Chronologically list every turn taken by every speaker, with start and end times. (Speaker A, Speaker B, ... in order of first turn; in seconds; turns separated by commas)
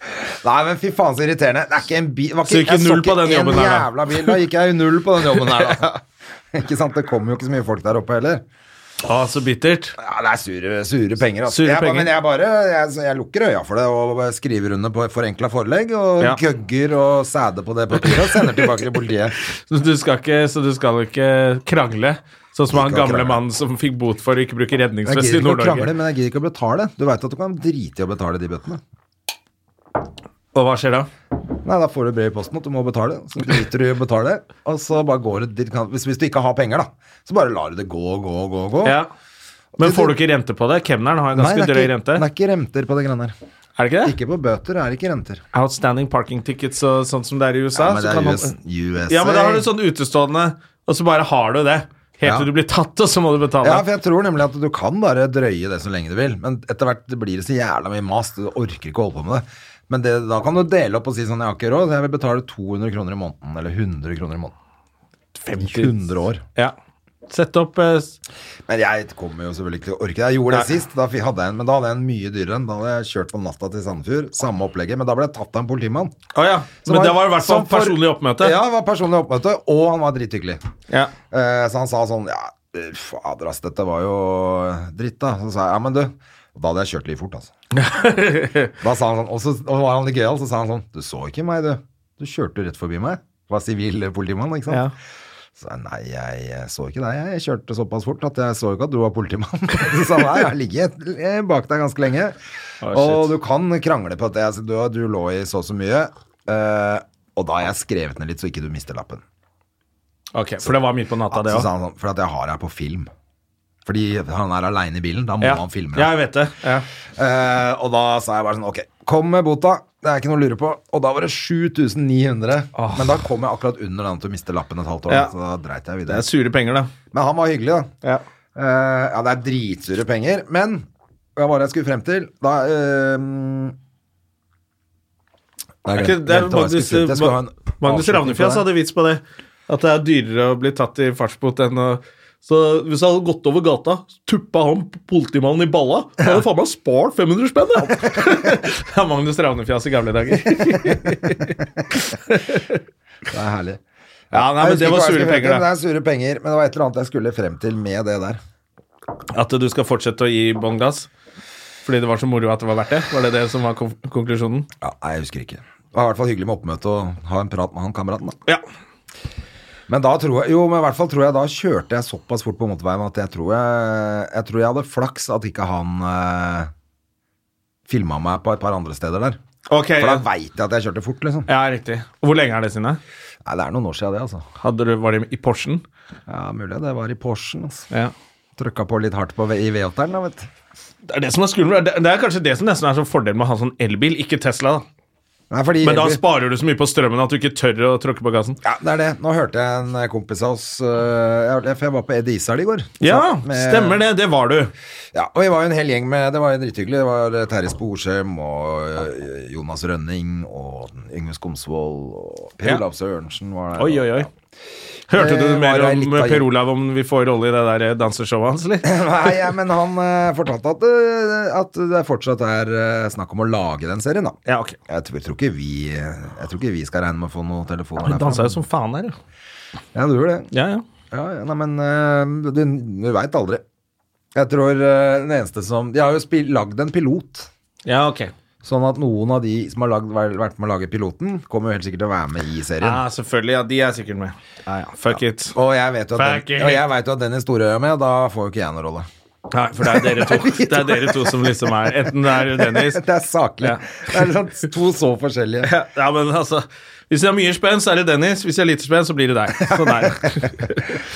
Speaker A: 0.2-6.0, Speaker B: 2.5-4.4, Speaker B: 5.4-5.9, Speaker A: 6.5-8.4, Speaker B: 9.1-10.0, Speaker A: 10.0-19.4, Speaker B: 11.5-12.1, Speaker B: 18.0-18.7, Speaker B: 19.7-25.9, Speaker A: 22.7-23.4, Speaker A: 25.1-28.8, Speaker B: 30.5-31.1, Speaker A: 31.6-39.0, Speaker B: 39.8-42.2, Speaker A: 39.8-40.1, Speaker A: 41.4-43.4, Speaker B: 43.8-44.2, Speaker A: 44.0-45.4, Speaker B: 45.5-48.5, Speaker A: 47.8-49.7, Speaker B: 49.1-53.9, Speaker A: 52.2-52.5, Speaker A: 53.6-64.5, Speaker B: 65.4-65.9, Speaker A: 65.6-66.4, Speaker B: 67.3-68.2, Speaker A: 68.7-76.2, Speaker B: 76.3-78.6, Speaker A: 76.9-80.6, Speaker A: 81.3-87.5, Speaker B: 87.8-88.7, Speaker A: 88.8-94.8, Speaker A: 95.6-102.4, Speaker B: 102.8-103.3, Speaker A: 102.9-109.2, Speaker B: 110.3-111.7, Speaker A: 111.3-113.1, Speaker A: 113.9-116.1, Speaker B: 115.4-116.9, Speaker A: 117.2-126.3, Speaker B: 122.8-123.1, Speaker B: 126.1-126.9, Speaker A: 127.1-127.9, Speaker A: 128.6-130.8, Speaker A: 131.4-133.8, Speaker A: 135.8-138.6, Speaker B: 135.9-152.8, Speaker A: 147.8-148.5, Speaker A: 153.3-153.8, Speaker A: 154.3-158.4, Speaker B: 154.3-155.7, Speaker B: 159.3-161.1, Speaker B: 161.8-164.7, Speaker A: 164.8-168.4, Speaker A: 169.9-176.7, Speaker A: 177.9-179.4, Speaker B: 179.7-180.3, Speaker A: 180.0-181.5, Speaker B: 181.5-183.0, Speaker A: 183.4-184.4, Speaker B: 184.6-185.8, Speaker A: 186.3-187.9, Speaker A: 188.6-190.5, Speaker B: 191.1-194.8, Speaker A: 195.5-196.2, Speaker B: 195.8-198.6, Speaker A: 198.6-204.0, Speaker B: 203.0-204.7, Speaker A: 205.1-214.3, Speaker B: 213.8-214.3, Speaker B: 215.1-219.0, Speaker A: 215.1-216.5, Speaker A: 218.8-224.4, Speaker B: 224.5-224.8, Speaker A: 224.9-228.6, Speaker B: 228.0-229.2, Speaker A: 229.9-230.5, Speaker B: 230.5-230.8, Speaker A: 231.1-233.6, Speaker A: 234.3-237.5, Speaker B: 237.9-238.3, Speaker A: 238.6-243.0, Speaker B: 242.8-245.5, Speaker A: 245.1-249.1, Speaker B: 246.2-246.8, Speaker B: 249.5-253.0, Speaker A: 249.8-251.7, Speaker A: 252.4-255.7, Speaker B: 253.6-254.2, Speaker B: 255.6-261.0, Speaker A: 259.6-260.5